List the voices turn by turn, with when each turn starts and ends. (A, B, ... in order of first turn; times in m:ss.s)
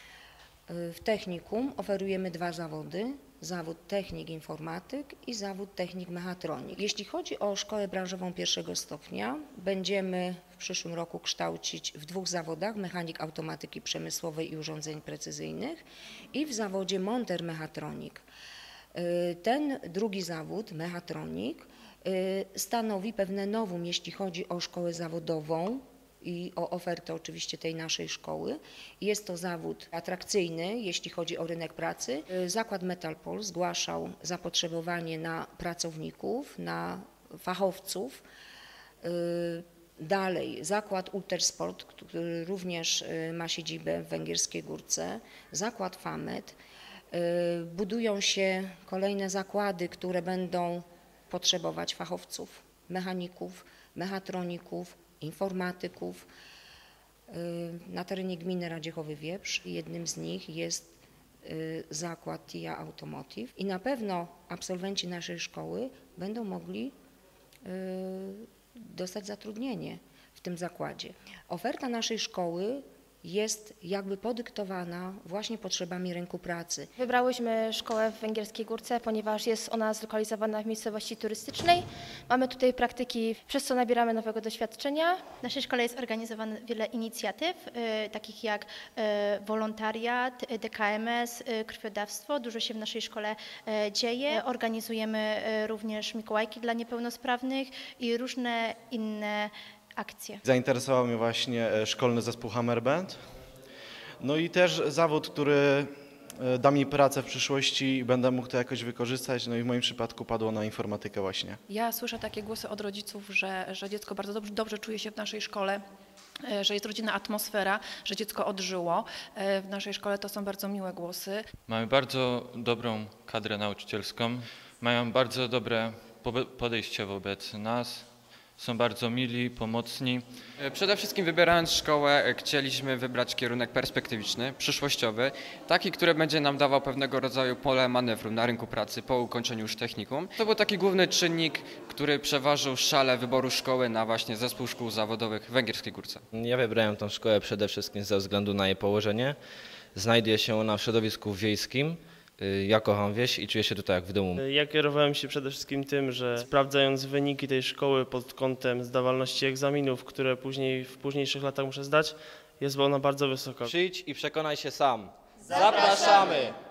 0:00.7-0:18.2 A
0:18.9-0:38.2 A
0:39.0-0:46.6 A
0:47.1-0:56.3 A
0:57.3-1:06.9 A
1:07.6-1:16.9 A
1:17.0-1:25.2 B
1:25.4-1:40.4 C
1:40.4-1:43.2 D
1:44.2-1:51.6 D
1:51.7-1:55.8 E
1:56.4-2:01.4 E
2:01.7-2:10.2 F
2:10.6-2:26.2 G
2:26.3-2:29.4 H
2:29.9-2:34.4 H
2:34.4-2:43.7 I
2:43.6-2:46.5 H